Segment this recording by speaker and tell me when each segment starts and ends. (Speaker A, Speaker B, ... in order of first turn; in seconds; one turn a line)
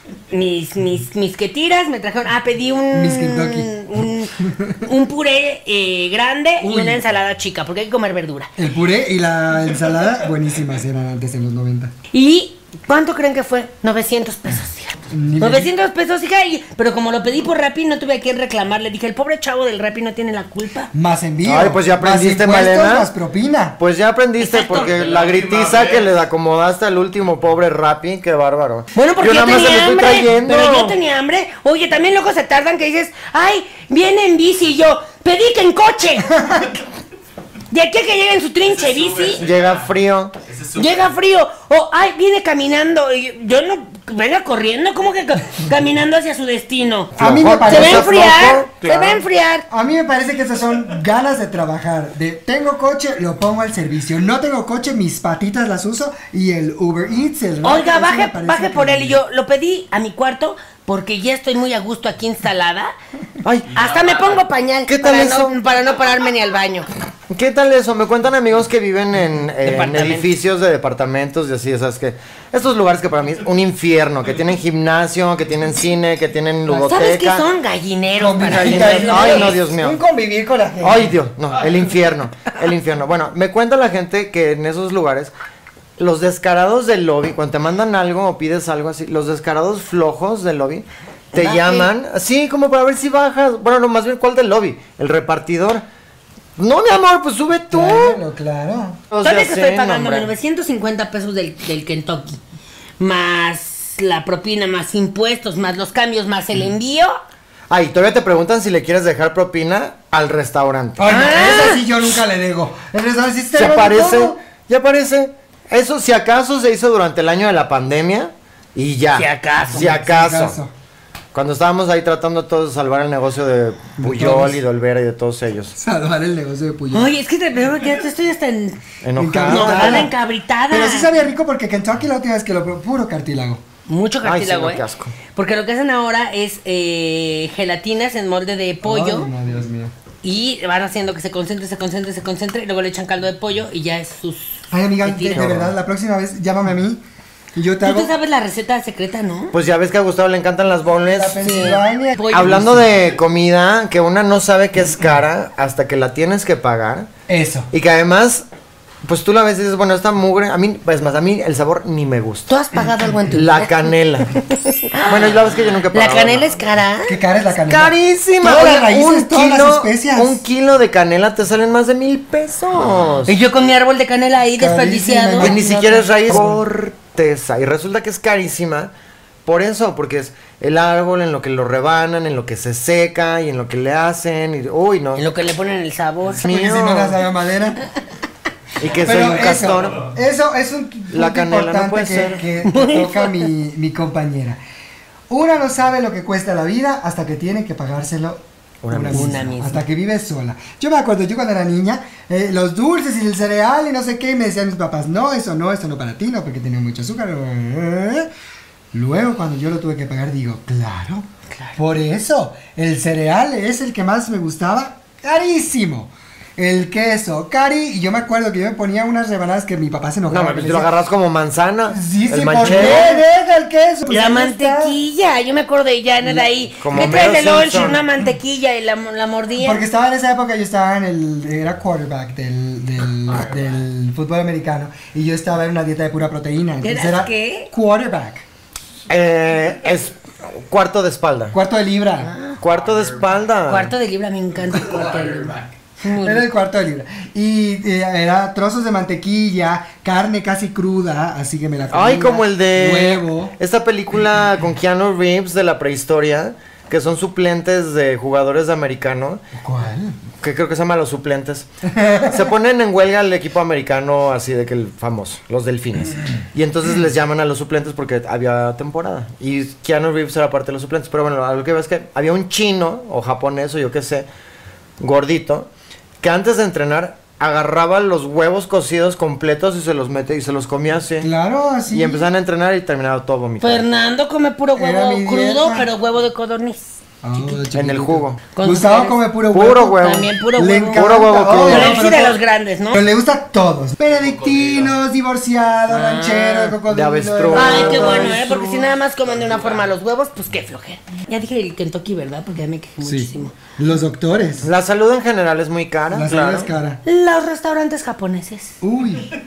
Speaker A: 0.3-4.3
Speaker B: 2.9-3.7
Speaker B: 4.4-4.8
Speaker A: 4.8-8.5
Speaker B: 6.6-7.0
Speaker B: 8.6-11.9
Speaker A: 12.1-20.9
Speaker B: 15.1-15.7
Speaker B: 20.9-23.8
Speaker C: 21.4-23.1
Speaker C: 23.8-31.0
Speaker A: 24.4-24.9
Speaker D: 24.8-26.1
Speaker A: 28.9-36.3
Speaker A: 37.7-39.4
Speaker D: 38.6-39.9
Speaker C: 39.4-40.3
Speaker D: 40.5-41.1
Speaker A: 40.7-49.6
Speaker B: 47.1-48.3
Speaker C: 47.2-49.2
Speaker B: 49.7-59.2
Speaker A: 57.6-62.9
Speaker C: 63.4-63.8
Speaker A: 63.7-66.9
Speaker D: 63.7-64.4
Speaker C: 64.9-65.6
Speaker C: 67.3-77.4
Speaker A: 69.6-70.3
Speaker A: 76.7-79.6
Speaker B: 78.2-81.1
Speaker C: 78.4-80.0
Speaker C: 80.8-85.3
Speaker C: 86.0-95.8
Speaker A: 91.3-91.9
Speaker C: 96.6-98.2
Speaker B: 97.7-99.0
Speaker C: 99.1-100.3
Speaker A: 99.2-102.4
Speaker A: 103.0-107.2
Speaker C: 107.7-111.1
Speaker B: 111.0-114.4
Speaker A: 111.0-111.8
Speaker C: 113.5-120.6
Speaker A: 119.1-119.9
Speaker B: 119.7-120.7
Speaker C: 121.3-125.7
Speaker B: 124.0-124.6
Speaker B: 125.7-127.1
Speaker A: 126.9-128.8
Speaker C: 129.0-130.1
Speaker B: 129.2-130.1
Speaker A: 129.4-131.1
Speaker B: 130.7-133.6
Speaker A: 133.9-139.3
Speaker C: 134.2-135.2
Speaker B: 138.8-139.9
Speaker A: 140.2-145.4
Speaker B: 144.7-147.0
Speaker C: 145.3-145.7
Speaker B: 147.5-148.1
Speaker A: 147.8-149.6
Speaker C: 149.5-151.5
Speaker B: 151.0-152.9
Speaker A: 151.4-152.7
Speaker C: 152.3-157.1
Speaker B: 157.3-157.7
Speaker C: 157.7-158.4
Speaker C: 159.0-162.5
Speaker A: 162.5-167.2
Speaker C: 163.3-164.3
Speaker C: 165.0-166.6
Speaker B: 167.1-170.4
Speaker C: 167.7-173.3
Speaker A: 173.3-176.0
Speaker B: 174.6-176.6
Speaker C: 175.4-178.9
Speaker C: 179.4-185.2
Speaker A: 185.2-186.4
Speaker C: 186.4-187.2
Speaker B: 186.4-187.8
Speaker C: 188.8-190.1
Speaker B: 188.9-194.6
Speaker C: 191.1-192.4
Speaker A: 192.6-193.5
Speaker B: 195.3-208.3
Speaker C: 198.8-199.5
Speaker A: 199.1-199.8
Speaker B: 208.9-220.9
Speaker A: 211.5-211.8
Speaker C: 220.3-223.1
Speaker B: 221.9-225.0
Speaker A: 222.6-223.2
Speaker A: 224.1-229.8
Speaker C: 226.8-228.0
Speaker B: 229.6-238.4
Speaker D: 233.3-233.7
Speaker A: 236.8-237.7
Speaker C: 239.1-241.6
Speaker B: 241.5-242.3
Speaker C: 242.6-243.9
Speaker D: 242.8-243.3
Speaker A: 243.7-246.5
Speaker D: 244.7-245.7
Speaker B: 246.2-253.5
Speaker C: 251.9-259.4
Speaker B: 259.6-260.1
Speaker C: 260.4-261.7
Speaker B: 261.9-262.4
Speaker C: 262.2-274.2
Speaker C: 275.0-275.7
Speaker C: 276.2-281.3
Speaker B: 281.2-282.3
Speaker C: 281.9-283.8
Speaker A: 283.6-286.9
Speaker B: 284.7-285.9
Speaker B: 287.2-292.4
Speaker C: 287.7-288.4
Speaker A: 288.5-289.2
Speaker C: 289.5-290.3
Speaker A: 289.9-293.0
Speaker C: 290.9-292.1
Speaker B: 292.9-298.9
Speaker D: 294.1-294.9
Speaker A: 295.9-296.7
Speaker C: 296.9-298.4
Speaker A: 297.5-303.5
Speaker D: 299.3-299.9
Speaker B: 303.0-304.7
Speaker C: 304.6-306.7
Speaker B: 306.1-307.0
Speaker A: 307.0-308.8
Speaker B: 308.8-309.3